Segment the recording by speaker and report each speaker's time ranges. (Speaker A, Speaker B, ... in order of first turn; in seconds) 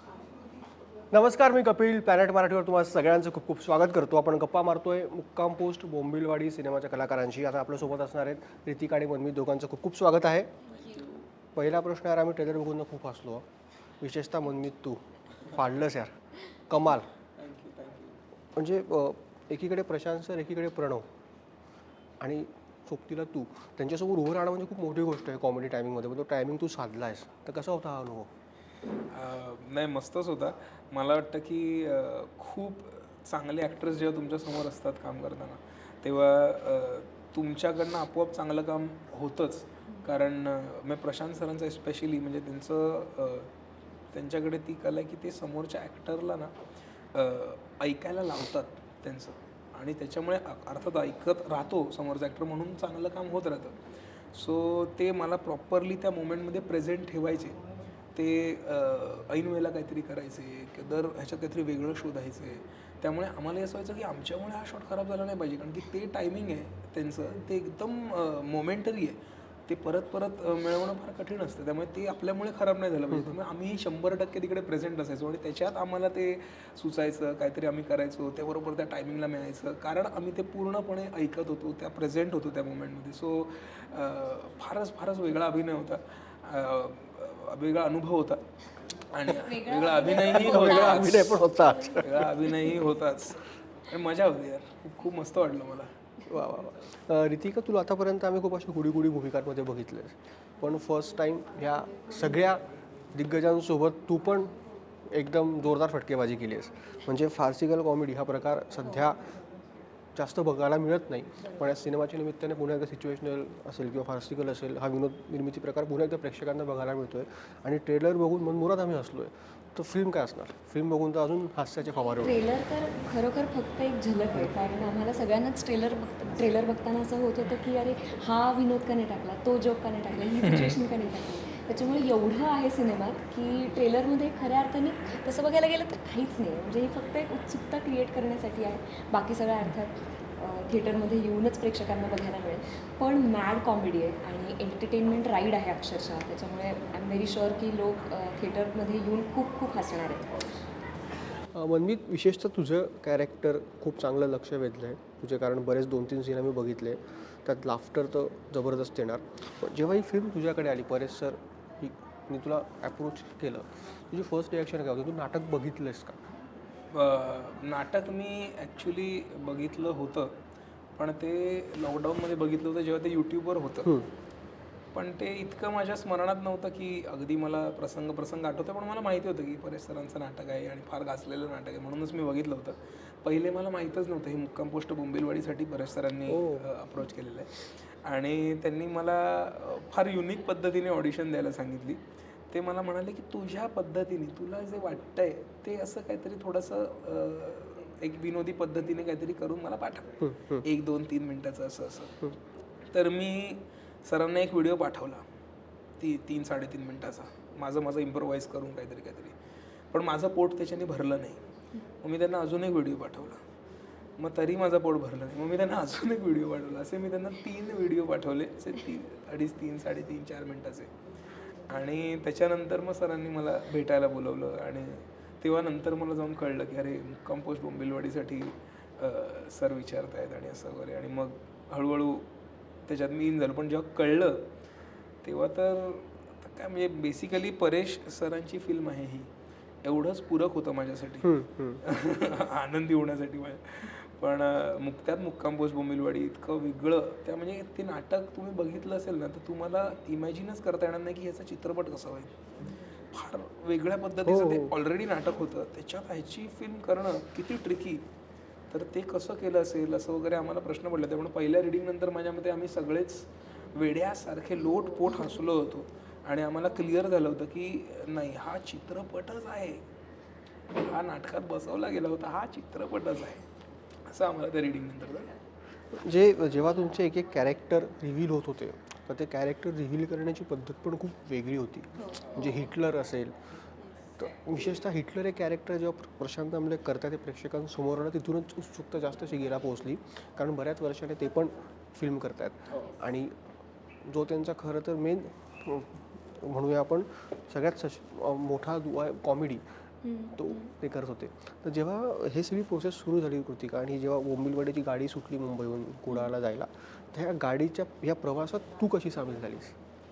Speaker A: 1.1-10.5, 11.5-13.4, 14.0-16.1, 16.7-17.1, 18.5-21.1, 22.2-28.3, 90.2-92.3, 96.3-104.5, 105.1-109.3, 110.1-122.4, 151.3-166.2, 186.3-186.7, 200.2-200.6, 241.2-241.8, 254.2-254.7, 275.9-283.5, 284.2-293.4, 294.0-299.6, 300.4-309.7
Speaker B: 10.7-11.3, 17.4-18.2, 29.1-43.5, 44.1-46.5, 47.1-53.8, 54.3-57.6, 58.1-91.4, 92.0-95.9, 130.4-130.8, 166.9-170.3, 171.0-174.0, 174.9-202.2, 202.9-205.2, 206.0-209.3, 209.9-211.4, 212.0-213.4, 214.2-220.9, 221.7-232.3, 232.8-234.5, 235.2-239.3, 239.8-252.4, 253.1-258.0, 258.7-269.8, 270.7-273.4, 274.1-275.3
Speaker C: 89.2-92.2, 122.1-150.6, 282.0-282.6, 300.0-300.7